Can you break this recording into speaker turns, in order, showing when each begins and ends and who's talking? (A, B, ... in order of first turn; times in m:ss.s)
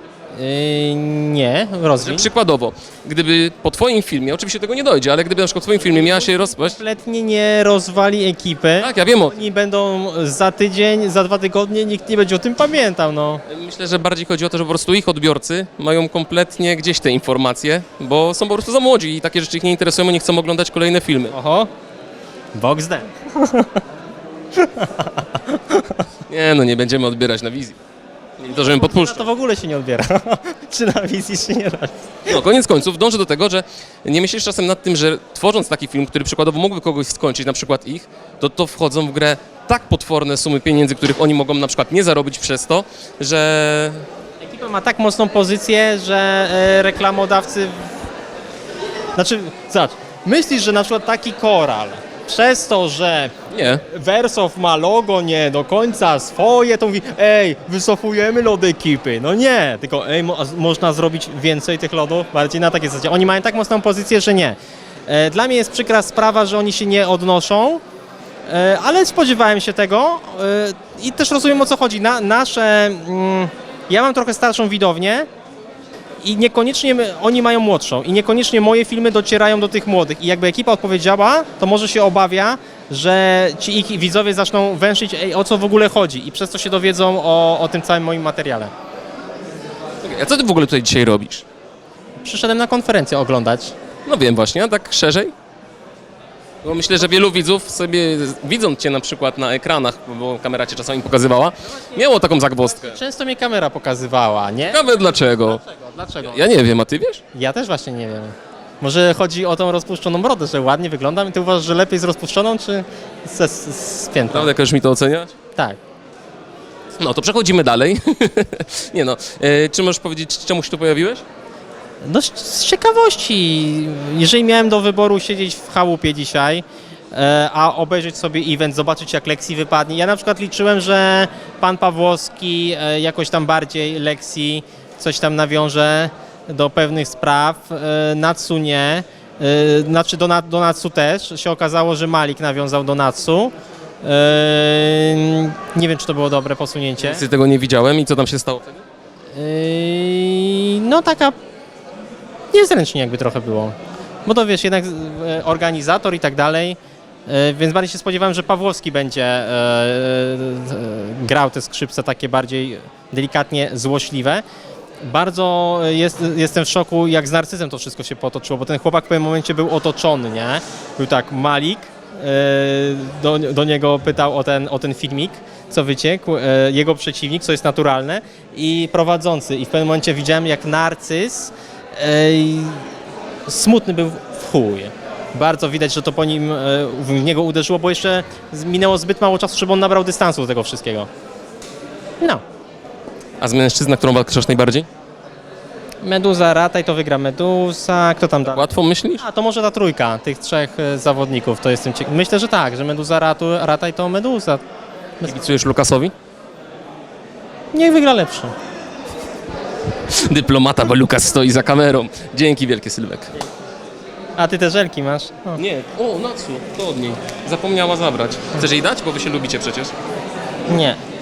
0:00.4-0:02.3 A
0:02.0-0:06.8 B
0:05.7-0:13.4 A
0:08.8-0:09.4 B
0:13.5-0:21.3 B
0:21.3-0:21.7 A
0:22.5-0:23.8 A
0:24.5-0:26.0 A
0:26.3-0:27.8 B
0:28.4-0:29.3 B
0:28.5-0:32.4 A
0:32.3-0:44.0 B
0:44.4-0:47.9 A
0:49.2-0:53.3 A
0:53.5-0:53.8 B
0:53.9-1:04.6 A
1:05.1-1:07.8 A
1:08.4-1:15.3 A
1:16.2-1:28.7 A
1:30.0-1:31.4 B
1:32.2-1:33.7 A
1:34.0-1:35.3 B
1:36.6-1:43.0 B
1:41.8-1:42.0 A
1:42.6-1:44.8 A
1:44.7-1:45.6 B
1:45.4-1:46.4 A
1:46.2-1:47.2 B
1:47.3-1:54.5 A
1:54.3-1:55.3 B
1:57.0-2:01.2 B
2:02.0-2:27.2 A
2:27.0-2:28.8 B
2:29.3-2:31.4 A
2:32.5-2:44.4 A
2:45.0-3:02.9 A
3:03.5-3:11.1 A
3:13.4-3:14.9 B
3:16.0-3:18.7 A
3:18.4-3:19.2 B
3:19.2-3:24.6 A
3:25.2-3:26.1 B
3:27.7-3:28.5 A
3:30.1-3:33.3 B
3:34.4-3:35.6 A
3:35.5-3:39.9 B
3:40.7-3:41.0 A